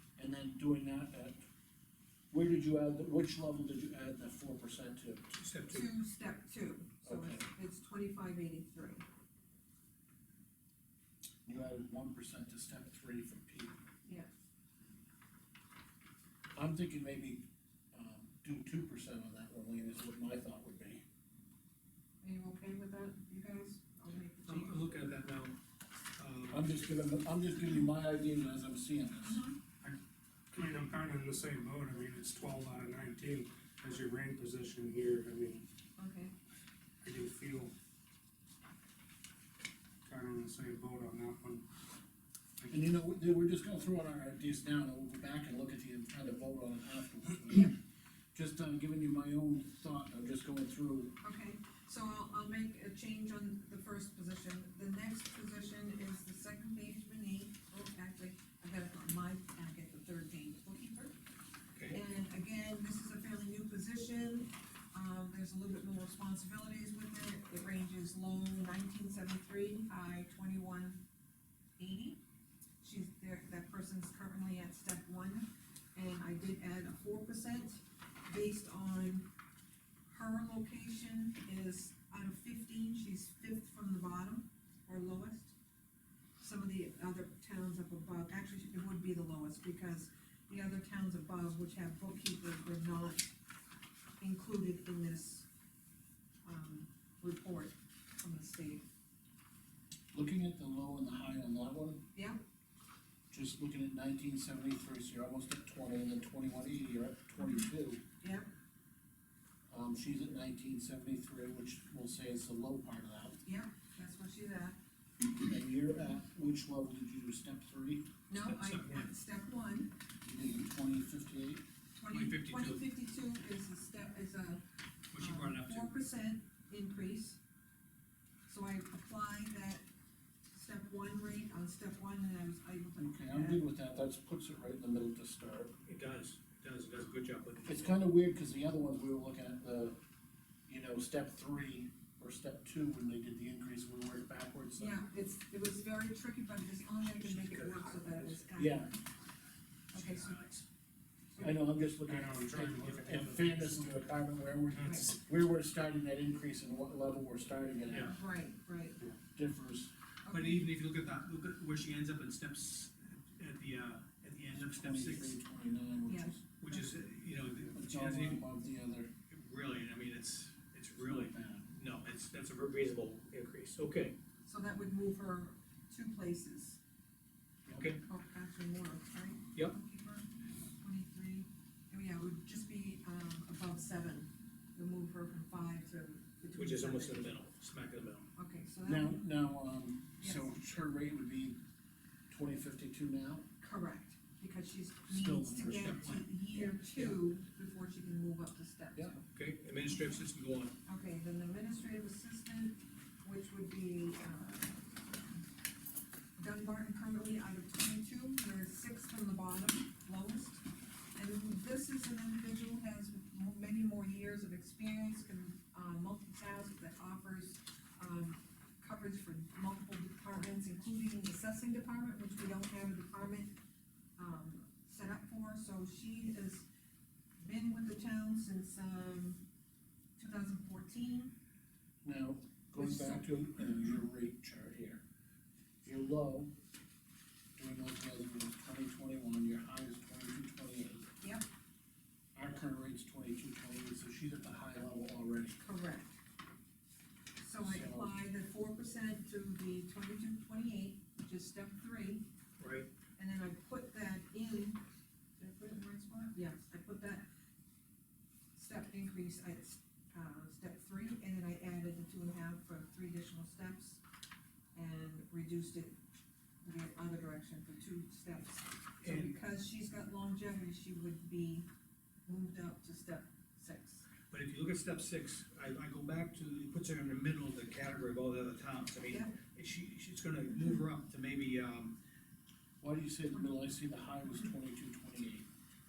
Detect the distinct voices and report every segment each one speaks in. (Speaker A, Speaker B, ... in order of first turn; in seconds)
Speaker A: 0.2-1.4, 2.3-5.3, 7.0-7.5, 11.4-13.8, 16.6-21.0, 26.5-29.5, 42.7-47.8, 48.3-51.2, 100.1-102.0, 103.3-108.0, 109.7-113.4, 115.3-118.1, 120.2-121.6, 133.0-135.8, 137.7-140.0, 140.7-145.0, 148.6-148.9, 151.4-158.2, 159.3-159.9, 164.5-166.4, 167.7-169.1, 171.0-171.7, 188.8-191.6, 192.3-193.5, 195.1-196.0, 196.5-197.2, 232.0-235.0, 235.8-236.5, 237.6-241.1, 242.3-245.6, 247.6-248.1, 282.8-285.5
Speaker B: 5.3-5.9, 24.5-25.6, 26.2-26.9, 61.7-62.0, 118.5-119.1, 122.1-122.8, 125.1-125.9, 135.8-137.9, 147.0-148.4, 149.9-150.7, 157.9-158.2, 160.3-165.4, 166.6-168.4, 169.3-174.2, 177.7-178.0, 186.5-188.3, 195.7-196.3, 199.3-200.8, 252.6-252.9, 269.0-269.4, 274.3-282.0
Speaker C: 5.7-9.1, 14.1-14.3, 22.2-24.9, 29.2-29.6, 36.0-36.3, 51.2-61.2, 61.9-71.0, 71.8-72.2, 72.8-79.3, 80.1-85.5, 86.4-93.3, 94.2-95.5, 96.5-98.8, 102.2-102.4, 107.4-107.7, 108.2-108.5, 113.5-114.8, 118.3-119.9, 122.0-124.6, 125.2-127.4, 128.5-129.8, 130.5-133.6, 144.8-149.0, 149.9-150.4, 151.3-151.6, 158.1-159.0, 160.2-160.7, 166.1-166.9, 174.4-176.8, 178.0-187.4, 188.3-189.2, 190.2-190.5, 193.6-199.3, 200.8-205.2, 206.4-223.6, 224.2-226.7, 227.4-229.4, 230.2-231.3, 232.8-233.3, 245.6-246.2, 247.4-252.3, 253.2-254.8, 255.4-257.3, 258.6-264.0, 264.8-266.0, 266.6-271.7, 272.3-274.1, 279.1-279.4
Speaker D: 30.5-35.7, 37.0-37.7, 40.1-41.7, 152.1-154.0, 154.7-155.1